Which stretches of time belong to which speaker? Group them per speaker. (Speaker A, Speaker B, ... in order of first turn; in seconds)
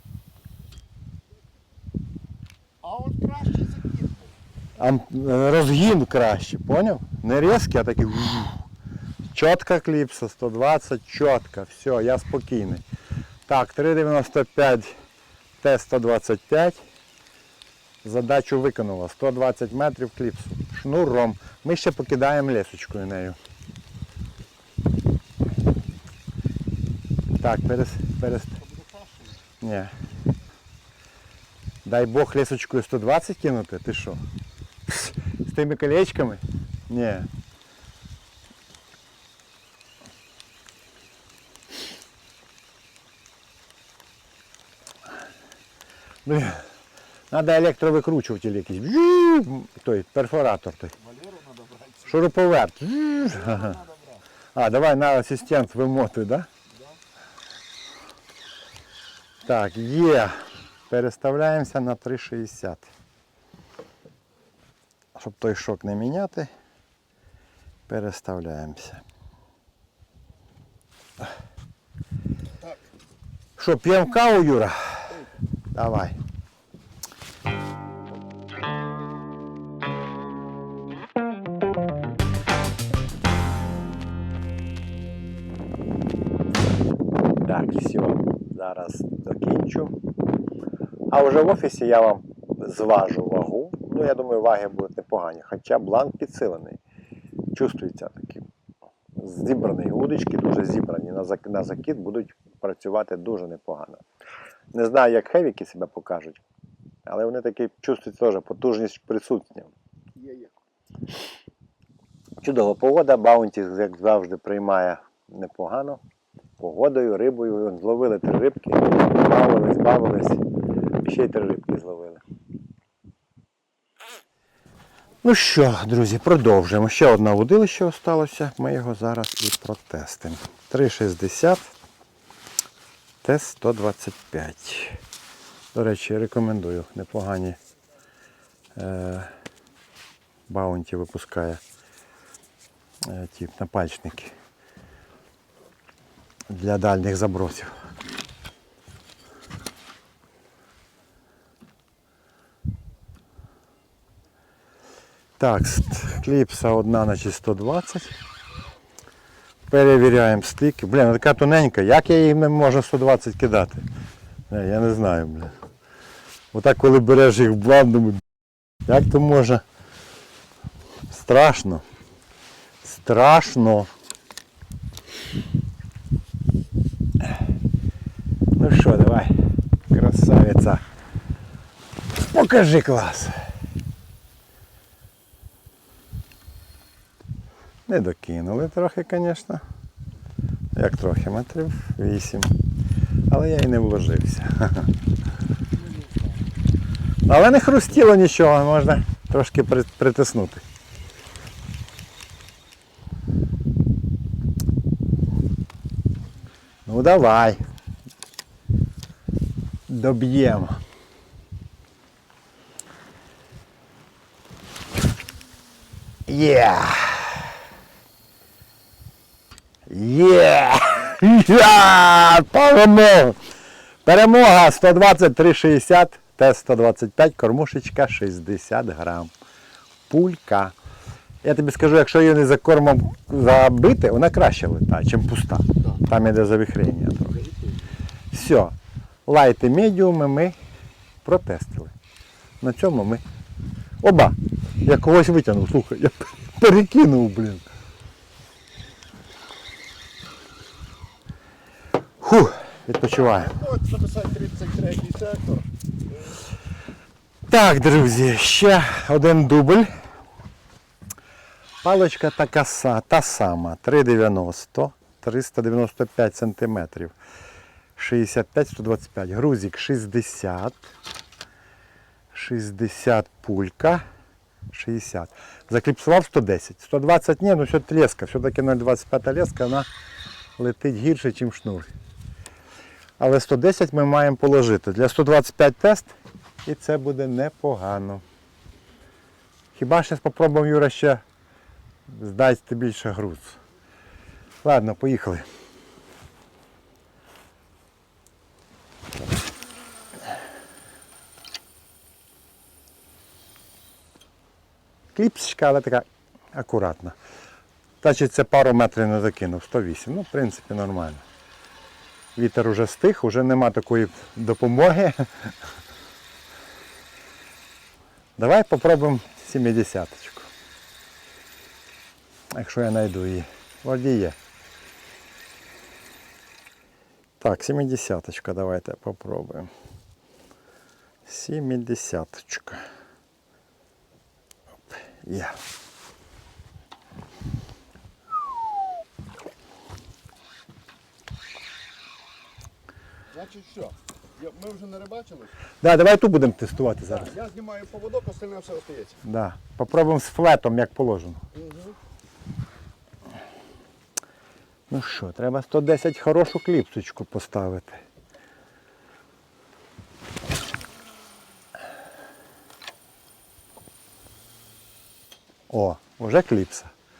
Speaker A: 2.8-4.3, 28.6-29.4, 51.0-52.2, 53.3-54.2, 110.2-110.5, 237.3-237.8, 253.1-255.7, 343.3-345.5, 347.1-349.2, 351.5-351.9
Speaker B: 4.8-8.6, 9.3-12.8, 13.5-14.9, 15.6-16.8, 18.0-23.4, 27.4-28.6, 29.6-29.9, 31.8-34.2, 34.9-37.3, 46.2-46.6, 47.3-50.9, 52.0-53.8, 54.5-56.5, 59.4-60.4, 60.9-62.9, 65.1-66.5, 67.9-69.0, 73.6-75.1, 75.7-76.2, 87.4-90.0, 91.1-96.8, 97.5-98.5, 99.2-104.0, 104.7-106.4, 107.0-109.7, 112.4-116.0, 116.6-120.4, 121.0-122.2, 125.2-131.7, 133.2-135.0, 135.7-137.6, 138.8-139.3, 140.5-141.6, 143.0-144.3, 146.5-147.7, 155.4-158.2, 159.7-163.9, 164.5-165.5, 166.5-168.2, 168.8-169.6, 171.1-171.8, 172.8-173.9, 178.5-179.3, 179.9-180.8, 182.1-183.4, 187.9-189.6, 190.7-192.5, 193.3-194.9, 197.2-200.6, 206.8-207.6, 209.9-210.8, 216.3-217.5, 219.9-223.4, 224.0-229.3, 230.1-230.8, 231.4-237.4, 238.3-238.8, 239.3-240.6, 241.2-241.9, 242.6-243.2, 244.0-247.6, 252.2-253.5, 257.5-259.9, 261.8-267.1, 267.9-270.9, 272.3-274.0, 274.7-279.9, 280.6-281.9, 283.2-288.2, 289.7-291.2, 292.1-293.6, 294.6-295.4, 305.1-307.1, 308.0-311.2, 312.4-315.5, 318.4-320.5, 322.5-324.4, 327.4-329.7, 331.3-332.8, 335.2-335.6, 345.8-347.4, 349.2-351.4, 354.9-358.0, 365.7-366.9